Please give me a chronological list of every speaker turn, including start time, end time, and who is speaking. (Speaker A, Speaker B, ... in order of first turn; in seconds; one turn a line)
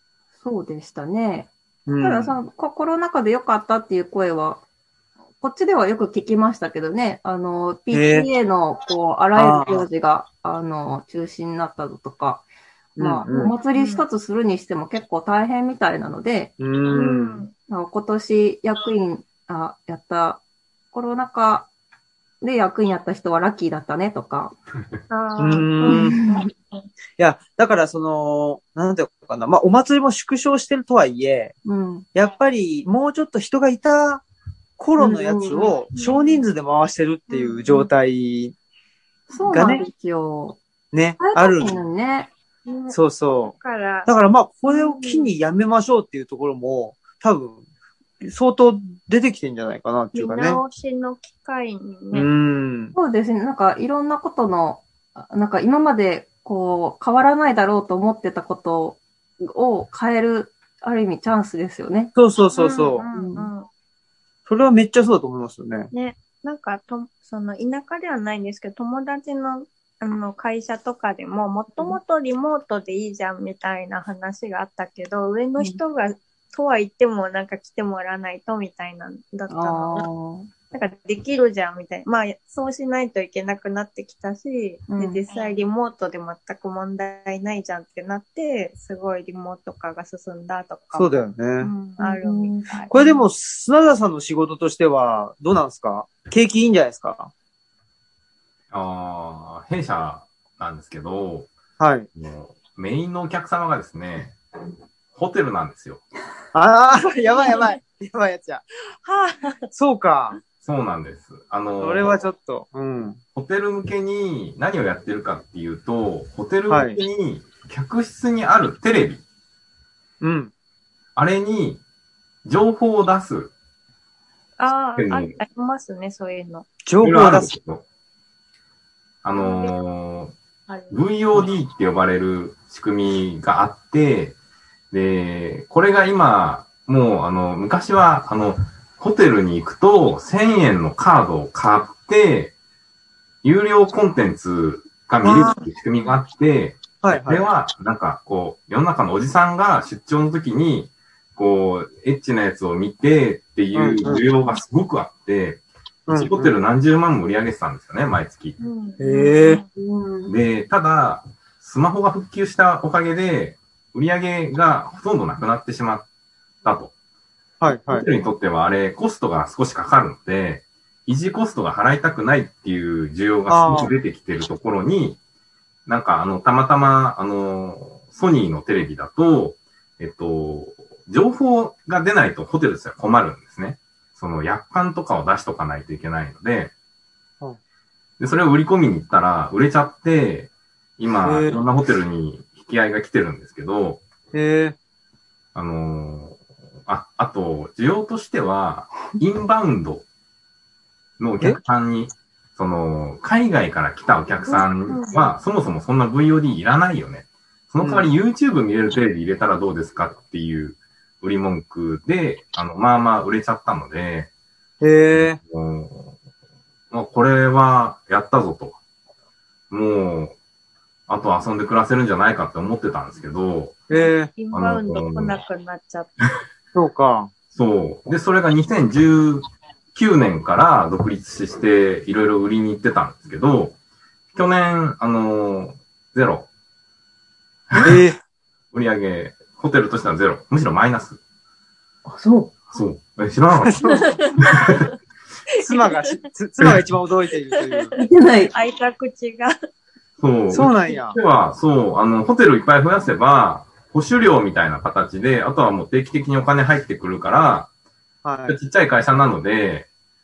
Speaker A: 0.4-4.6
Speaker B: 1.9-2.4
Speaker A: 5.4-12.4
Speaker B: 7.9-8.3
Speaker B: 9.3-9.8
Speaker A: 12.9-16.5
Speaker B: 13.0-13.5
Speaker C: 13.3-14.0
Speaker B: 16.6-17.5
Speaker C: 16.9-17.5
Speaker A: 17.7-21.7
Speaker A: 22.4-24.5
Speaker C: 25.1-26.8
Speaker B: 25.4-26.2
Speaker A: 25.8-26.5
Speaker B: 27.2-31.6
Speaker A: 31.6-32.0
Speaker B: 32.1-34.2
Speaker B: 34.8-38.5
Speaker A: 35.0-35.7
Speaker C: 35.9-36.4
Speaker C: 37.3-37.9
Speaker A: 39.3-40.6
Speaker B: 39.5-39.8
Speaker B: 40.9-41.8
Speaker A: 41.2-42.3
Speaker C: 42.7-42.9
Speaker B: 42.9-43.5
Speaker C: 43.5-44.1
Speaker B: 44.0-47.6
Speaker C: 44.7-45.3
Speaker B: 48.2-50.6
Speaker C: 50.1-52.3
Speaker B: 52.1-52.9
Speaker A: 52.9-62.1
Speaker B: 62.1-63.0
Speaker C: 62.5-63.7
Speaker A: 63.1-63.5
Speaker B: 64.5-65.9
Speaker C: 65.9-80.1
Speaker A: 79.5-80.5
Speaker C: 80.7-93.0
Speaker A: 84.9-85.2
Speaker B: 90.9-91.7
Speaker A: 92.0-93.1
Speaker B: 92.9-97.3
Speaker D: 98.7-101.5
Speaker B: 101.8-102.1
Speaker D: 102.2-104.4
Speaker D: 105.1-106.0
Speaker B: 106.5-108.6
Speaker C: 109.0-109.6
Speaker B: 109.7-110.4
Speaker D: 110.6-112.0
Speaker B: 111.8-113.2
Speaker D: 113.3-119.2
Speaker B: 116.7-117.0
Speaker B: 120.2-120.5
Speaker D: 121.2-121.8
Speaker D: 122.4-123.5
Speaker C: 124.6-126.7
Speaker D: 125.0-125.3
Speaker B: 126.8-127.5
Speaker D: 127.0-127.8
Speaker D: 129.2-130.3
Speaker C: 129.3-129.7
Speaker C: 130.7-130.9
Speaker D: 130.9-134.3
Speaker D: 134.9-142.5
Speaker D: 143.4-158.6
Speaker B: 145.2-145.6
Speaker B: 147.0-147.5
Speaker B: 153.7-154.2
Speaker B: 156.1-156.5
Speaker C: 158.6-159.7
Speaker B: 159.0-159.6
Speaker A: 159.8-160.3
Speaker D: 160.3-166.1
Speaker D: 166.6-166.9
Speaker B: 167.6-168.1
Speaker D: 167.9-175.2
Speaker B: 173.5-173.9
Speaker D: 175.8-186.7
Speaker D: 188.2-194.0
Speaker B: 191.2-191.6
Speaker B: 194.3-194.8
Speaker D: 195.5-200.0
Speaker D: 201.2-214.3
Speaker C: 204.4-205.3
Speaker B: 207.8-208.1
Speaker B: 214.8-215.4
Speaker D: 215.4-216.1
Speaker D: 216.9-218.8
Speaker D: 219.7-220.3
Speaker D: 221.1-223.8
Speaker B: 223.9-224.3
Speaker C: 224.3-226.1
Speaker D: 224.5-225.4
Speaker B: 226.7-227.3
Speaker D: 227.5-233.7
Speaker D: 234.3-236.5
Speaker D: 237.7-238.0
Speaker B: 237.8-238.2
Speaker D: 238.7-241.2
Speaker A: 242.1-242.7
Speaker D: 242.7-244.8
Speaker B: 243.6-244.1
Speaker C: 243.9-244.3
Speaker B: 245.6-247.9
Speaker C: 245.7-246.0
Speaker C: 247.5-249.5
Speaker A: 248.0-248.5
Speaker D: 250.2-257.7
Speaker B: 250.5-251.2
Speaker B: 258.2-258.6
Speaker D: 258.5-259.9